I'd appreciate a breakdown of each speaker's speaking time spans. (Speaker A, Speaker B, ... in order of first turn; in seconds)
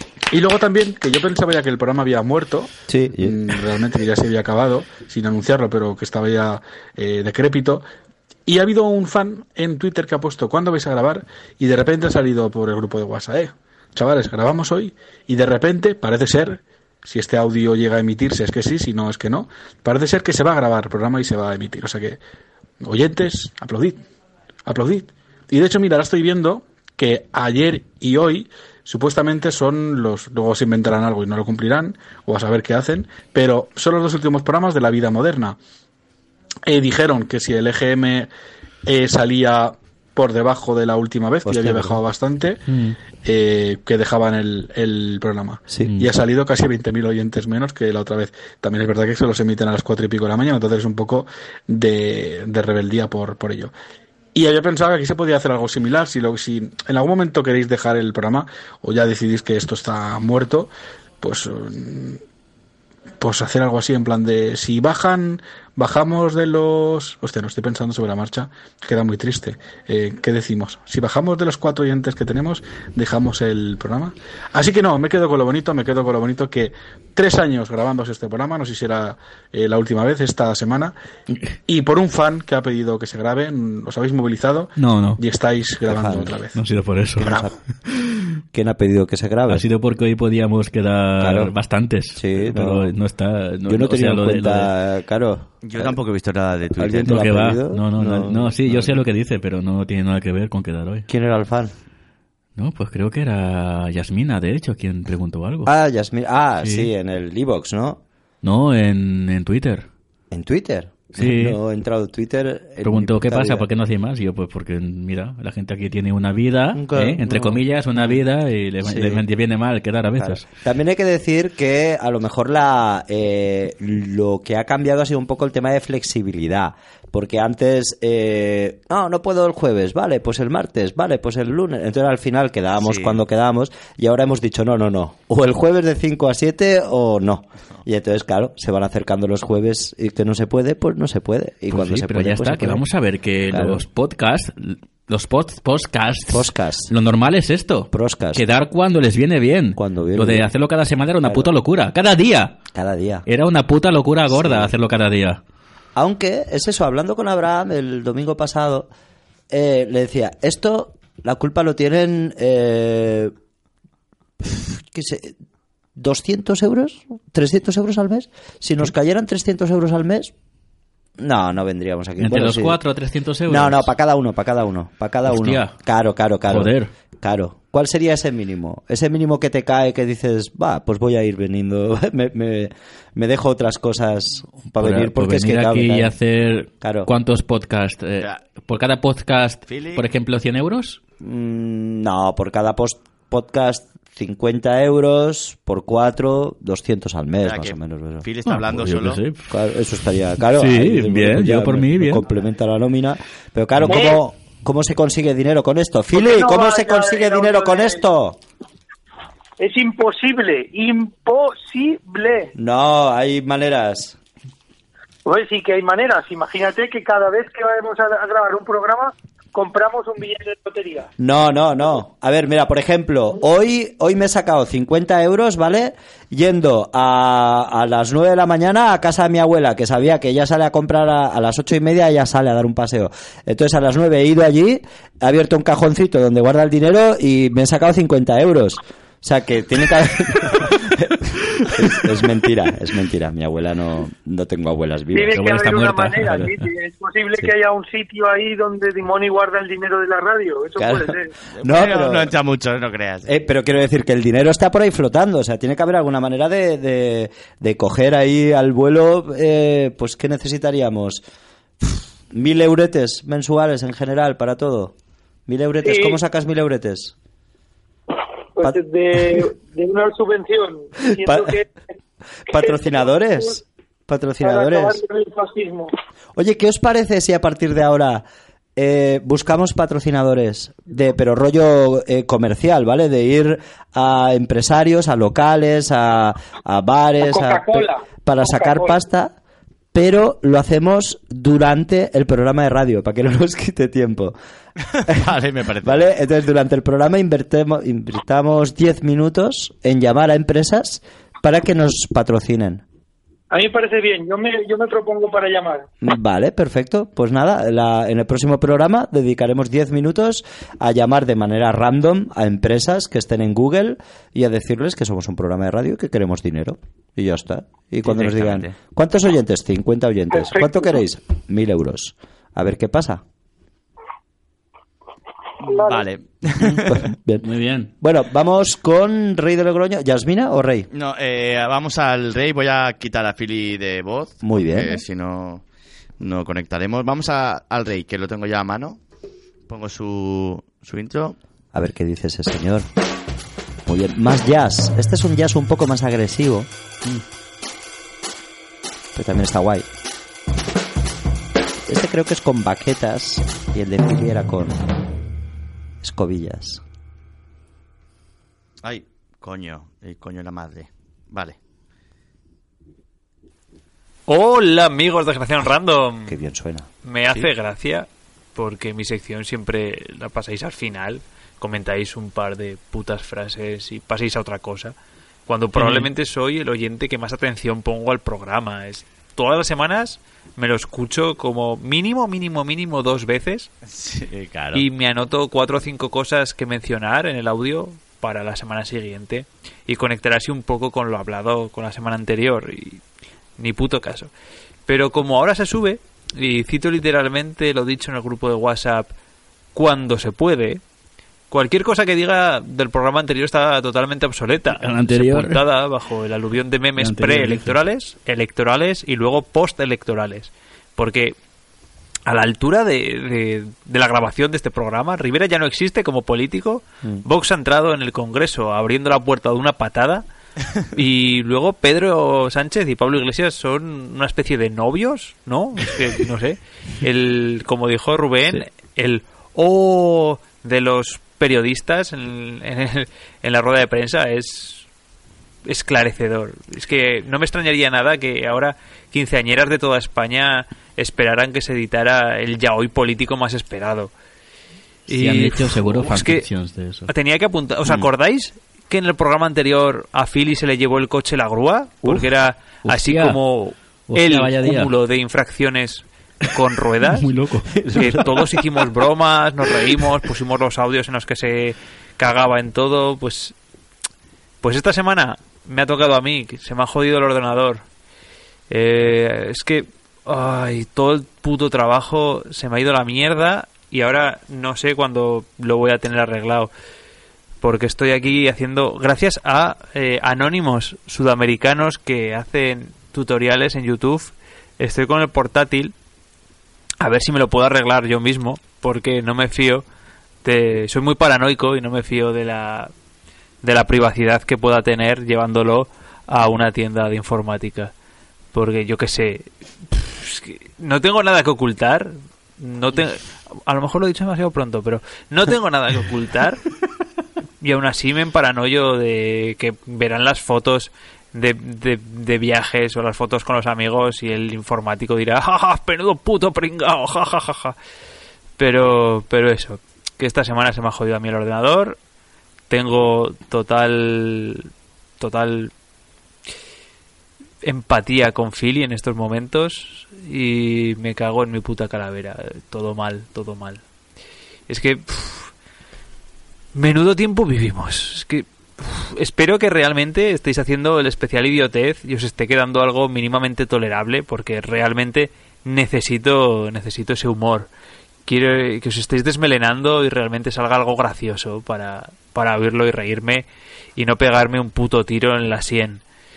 Speaker A: 0.3-7.8, 8.4-22.2, 22.8-24.0, 24.7-35.6, 36.7-38.3, 38.8-42.6, 43.2-53.7, 54.3-60.7, 61.2-62.2, 63.2-80.9, 81.7-86.6
Speaker B: 2.9-3.6, 41.4-42.0, 45.7-46.0, 85.9-86.3, 87.2-87.5, 88.5-89.6, 91.2-91.5, 92.1-92.9, 93.6-96.0, 96.8-99.0, 101.1-101.7, 105.6-108.0, 110.3-113.7, 116.7-118.2, 118.8-119.2, 120.2-142.8, 143.5-143.8, 146.3-146.9, 147.9-148.4, 149.7-150.5, 151.2-151.5, 152.7-153.2, 154.3-154.7, 155.9-158.9, 159.5-163.3, 164.4-165.3, 165.9-170.3, 171.2-172.8, 173.4-186.2, 186.8-187.1, 191.2-198.2, 199.5-208.4, 212.5-214.2, 221.2-245.4, 250.8-252.3, 253.2-261.2, 261.8-264.9, 265.5-267.1, 268.6-269.4, 271.2-271.6, 272.5-275.0, 276.3-278.2, 278.8-289.3, 289.9-294.3, 295.8-302.8, 306.0-323.2, 326.6-330.9, 334.4-335.0, 341.7-342.9, 343.9-346.7, 349.1-349.9, 351.9-354.8, 356.0-356.8, 366.3-366.9, 457.8-458.6
Speaker C: 42.7-43.0, 84.8-85.2, 86.5-88.2, 89.5-94.7, 97.0-101.1, 102.6-105.7, 106.6-106.9, 108.4-109.9, 111.2-111.6, 112.8-120.4, 141.7-152.6, 153.3-155.4, 172.2-173.9, 175.3-175.7, 176.5-176.9, 184.8-191.0, 198.4-199.5, 200.4-202.2, 245.3-246.5, 327.4-327.9, 375.8-376.1, 404.8-405.6, 407.0-407.7, 445.1-447.1, 452.8-453.4, 454.1-454.9, 457.0-457.8
Speaker D: 95.6-97.1, 132.8-133.2, 189.7-190.0, 197.4-199.2, 251.6-253.3, 294.9-296.1, 318.0-318.7, 325.6-327.1, 330.9-335.6, 336.2-339.0, 339.7-341.4, 358.8-361.6, 383.9-384.9
Speaker E: 203.9-204.2, 206.1-208.0, 209.6-212.5, 215.2-221.1, 245.1-251.3, 265.8-266.2, 268.6-271.7, 272.5-273.6, 274.4-275.9, 287.2-289.0, 303.5-305.9, 320.3-321.0, 325.6-326.1
Speaker F: 364.3-366.4, 367.0-374.9, 375.5-383.7, 384.7-393.0, 393.6-394.3, 394.9-399.1, 399.7-400.8, 401.5-411.4, 412.2-420.2, 420.9-434.9, 435.6-444.1, 445.1-446.5, 447.1-457.3, 457.9-463.6, 464.6-467.8, 468.7-476.7, 477.6-485.9, 487.0-489.8, 490.4-492.9, 493.6-497.9, 498.5-506.6, 507.6-517.8, 518.6-522.0, 522.7-525.7, 527.6-533.8, 534.7-535.5, 536.7-547.7, 548.2-556.0